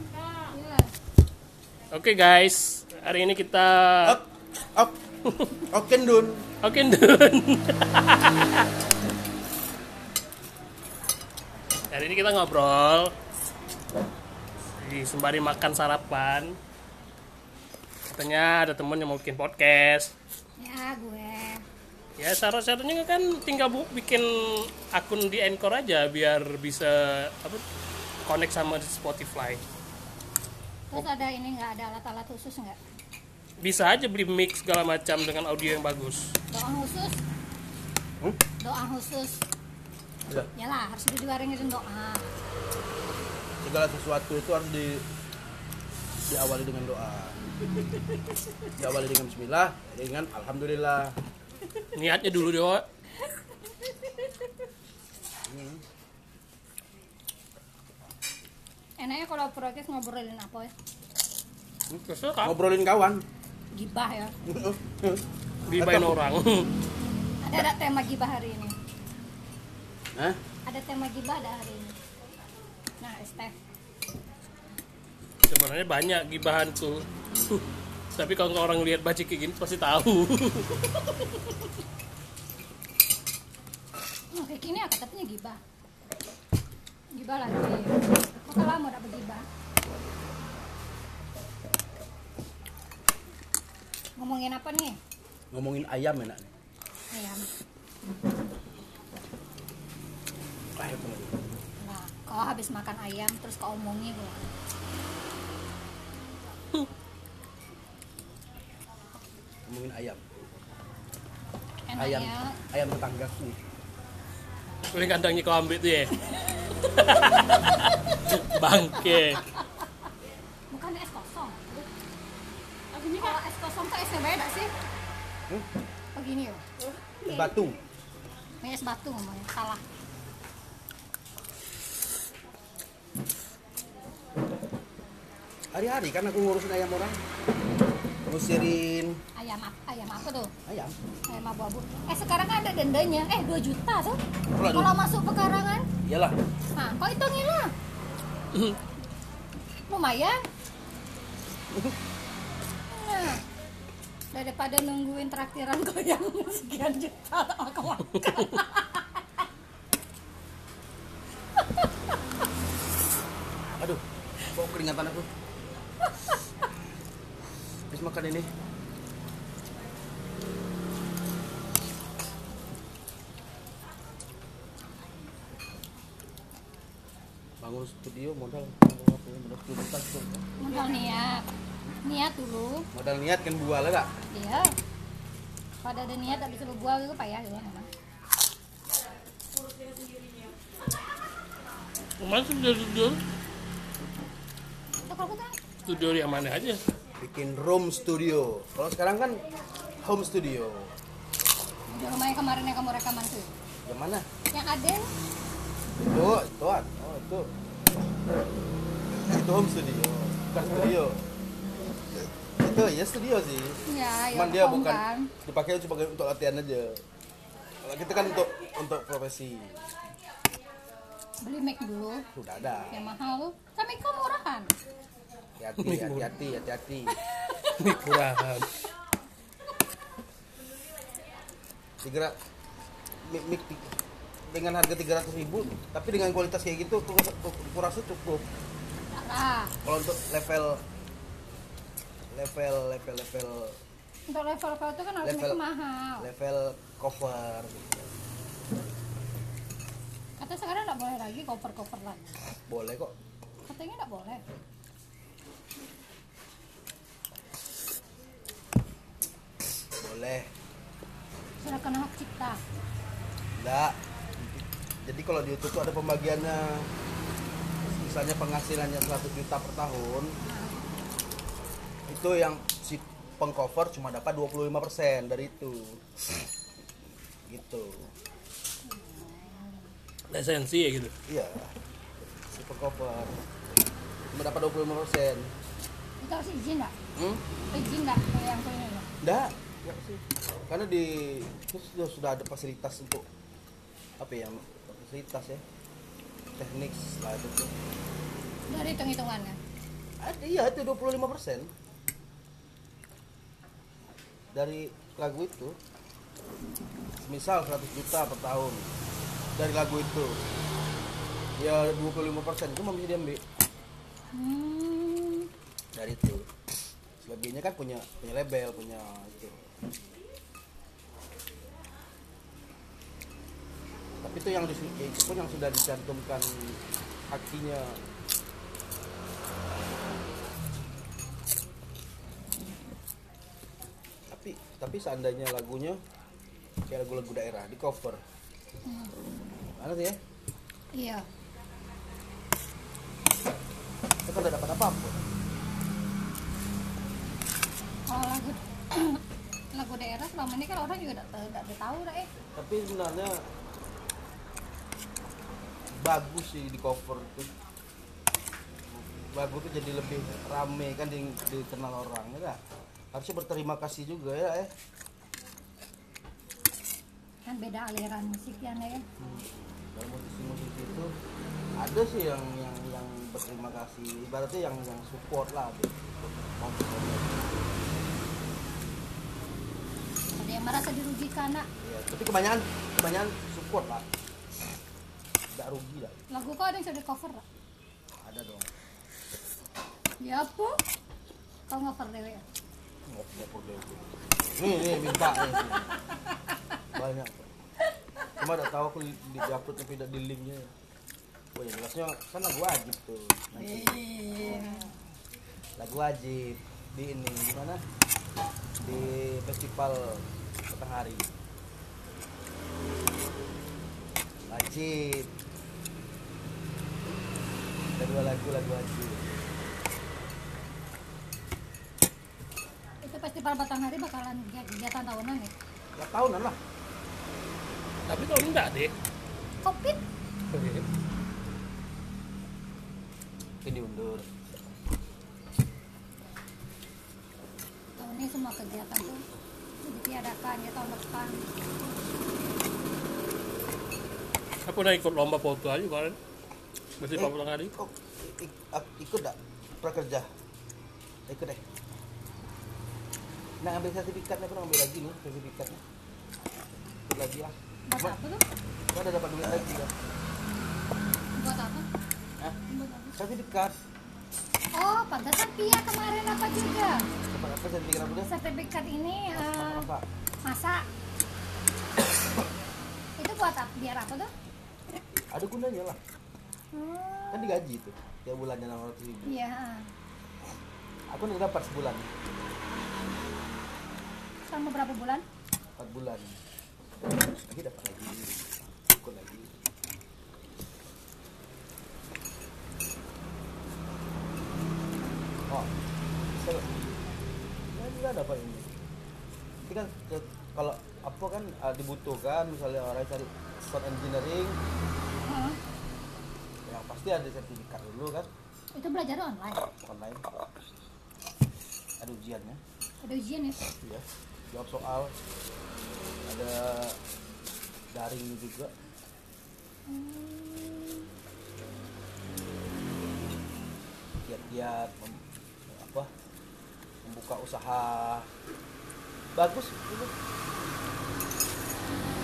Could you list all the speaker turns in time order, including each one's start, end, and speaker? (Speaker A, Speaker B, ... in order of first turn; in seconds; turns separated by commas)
Speaker A: 0.5-0.9, Speaker B: 1.9-4.2, Speaker C: 4.0-5.0, Speaker C: 5.7-6.5, Speaker B: 6.6-8.7, Speaker B: 11.9-13.1, Speaker B: 14.8-16.5, Speaker B: 18.1-20.1, Speaker A: 20.6-21.6, Speaker B: 22.2-27.6, Speaker B: 28.2-29.6, Speaker A: 30.9-32.8, Speaker B: 33.6-36.3, Speaker A: 36.5-37.2, Speaker A: 38.6-39.4, Speaker A: 40.5-42.3, Speaker C: 43.6-45.0, Speaker C: 46.2-47.4, Speaker C: 48.8-51.1, Speaker B: 51.9-52.9, Speaker C: 55.5-55.8, Speaker A: 59.0-60.7, Speaker C: 61.9-63.2, Speaker B: 62.1-62.5, Speaker A: 63.7-64.3, Speaker C: 64.5-65.2, Speaker B: 65.7-66.7, Speaker C: 65.7-66.2, Speaker A: 67.4-68.7, Speaker A: 70.7-72.0, Speaker A: 73.0-73.6, Speaker B: 75.5-77.6, Speaker B: 78.1-81.1, Speaker A: 84.3-85.6, Speaker A: 87.1-89.4, Speaker A: 94.2-95.0, Speaker C: 95.5-96.5, Speaker A: 97.1-97.4, Speaker C: 100.8-101.4, Speaker A: 101.8-104.5, Speaker C: 109.7-110.2, Speaker A: 111.9-112.5, Speaker C: 112.0-113.6, Speaker B: 114.9-116.1, Speaker B: 116.8-119.4, Speaker A: 120.7-121.8, Speaker A: 122.9-124.7, Speaker A: 126.1-126.6, Speaker C: 127.2-127.8, Speaker A: 128.6-129.8, Speaker C: 135.7-137.2, Speaker C: 138.2-139.2, Speaker A: 139.3-140.5, Speaker C: 140.7-140.9, Speaker A: 141.3-145.8, Speaker C: 144.5-144.9, Speaker C: 146.0-146.3, Speaker A: 146.7-147.7, Speaker A: 149.9-150.3, Speaker A: 152.9-153.4, Speaker A: 154.3-159.2, Speaker C: 163.8-165.3, Speaker C: 167.9-168.5, Speaker C: 177.6-180.4, Speaker A: 180.6-181.5, Speaker A: 182.0-182.9, Speaker C: 182.9-184.1, Speaker A: 184.3-184.7, Speaker A: 185.8-187.9, Speaker B: 192.2-193.2, Speaker A: 195.0-195.6, Speaker B: 195.8-196.8, Speaker C: 197.2-199.4, Speaker C: 200.0-200.9, Speaker A: 201.9-203.5, Speaker C: 203.8-204.2, Speaker A: 204.5-205.1, Speaker C: 205.9-207.5, Speaker C: 209.2-211.2, Speaker C: 212.6-213.8, Speaker A: 213.9-215.3, Speaker C: 214.3-217.0, Speaker C: 217.8-219.9, Speaker A: 221.4-222.3, Speaker C: 222.3-222.9, Speaker A: 222.9-224.7, Speaker C: 225.6-227.2, Speaker B: 225.8-226.3, Speaker B: 227.8-228.7, Speaker C: 232.0-232.3, Speaker C: 233.2-233.9, Speaker C: 234.5-238.4, Speaker A: 239.1-239.7, Speaker C: 239.8-240.8, Speaker C: 242.3-243.8, Speaker A: 244.3-246.3, Speaker C: 245.2-245.6, Speaker C: 246.2-248.1, Speaker A: 250.4-252.4, Speaker C: 252.7-253.1, Speaker A: 253.6-254.4, Speaker C: 260.0-260.5, Speaker A: 261.6-262.6, Speaker C: 263.6-266.9, Speaker C: 267.9-270.4, Speaker A: 270.4-270.8, Speaker C: 272.1-276.0, Speaker C: 277.5-278.1, Speaker A: 278.8-279.9, Speaker B: 280.3-281.1, Speaker C: 281.3-281.7, Speaker C: 282.4-283.3, Speaker C: 284.3-285.5, Speaker A: 286.2-286.9, Speaker C: 287.1-287.4, Speaker A: 287.7-289.1, Speaker C: 289.2-293.2, Speaker C: 294.2-295.6, Speaker C: 296.6-297.8, Speaker A: 298.7-299.6, Speaker C: 300.2-301.7, Speaker C: 304.5-305.8, Speaker C: 307.2-308.9, Speaker C: 309.5-310.4, Speaker C: 311.6-313.4, Speaker A: 314.3-315.5, Speaker C: 315.9-316.4, Speaker C: 317.2-319.6, Speaker C: 324.2-328.0, Speaker C: 334.3-336.0, Speaker C: 336.9-338.2, Speaker A: 338.9-339.1, Speaker C: 339.8-340.2, Speaker A: 340.9-341.2, Speaker C: 344.2-345.3, Speaker A: 348.1-349.2, Speaker A: 349.7-352.3, Speaker C: 352.6-353.4, Speaker C: 356.0-357.5, Speaker C: 358.9-362.6, Speaker C: 363.1-364.7, Speaker A: 367.5-369.0, Speaker C: 369.2-371.1, Speaker C: 371.8-377.5, Speaker A: 380.4-381.7, Speaker C: 381.8-384.1, Speaker C: 385.5-386.2, Speaker A: 386.3-387.4, Speaker C: 388.2-388.7, Speaker A: 390.2-390.8, Speaker A: 391.7-392.4, Speaker C: 393.1-394.0, Speaker C: 394.6-395.9, Speaker C: 396.9-397.5, Speaker C: 398.4-400.7, Speaker C: 401.5-404.8, Speaker A: 403.6-404.9, Speaker C: 405.8-407.8, Speaker C: 408.8-411.3, Speaker C: 414.5-415.3, Speaker C: 418.0-419.2, Speaker A: 423.0-425.5, Speaker C: 426.0-426.6, Speaker B: 428.1-428.9, Speaker A: 429.6-430.0, Speaker B: 430.5-430.9, Speaker C: 433.6-434.2, Speaker A: 438.0-439.2, Speaker A: 439.8-441.4, Speaker B: 444.6-446.2, Speaker B: 447.0-447.7, Speaker C: 447.1-450.3, Speaker C: 451.3-451.6, Speaker C: 453.6-455.8, Speaker C: 457.1-458.1, Speaker A: 457.9-458.4, Speaker C: 458.9-459.9, Speaker A: 461.4-461.9, Speaker A: 462.7-463.2, Speaker C: 463.1-463.7, Speaker A: 464.7-467.0, Speaker C: 467.3-468.3, Speaker A: 468.2-469.9, Speaker C: 469.3-470.0, Speaker A: 470.4-470.8, Speaker A: 473.2-474.3, Speaker C: 475.3-476.0, Speaker A: 476.7-477.6, Speaker C: 477.3-479.3, Speaker A: 479.2-479.9, Speaker C: 481.1-482.1, Speaker A: 484.5-485.2, Speaker C: 485.8-486.4, Speaker C: 487.4-489.5, Speaker C: 495.5-495.7, Speaker C: 496.3-496.8, Speaker C: 497.7-498.7, Speaker C: 499.6-504.6, Speaker A: 505.2-505.6, Speaker C: 506.6-508.3, Speaker A: 508.7-509.6, Speaker C: 509.8-510.2, Speaker C: 512.0-512.6, Speaker A: 513.0-513.6, Speaker C: 513.8-515.1, Speaker C: 516.2-517.0, Speaker C: 517.9-518.7, Speaker A: 519.9-521.1, Speaker C: 524.2-526.1, Speaker C: 527.0-528.3, Speaker C: 529.4-530.1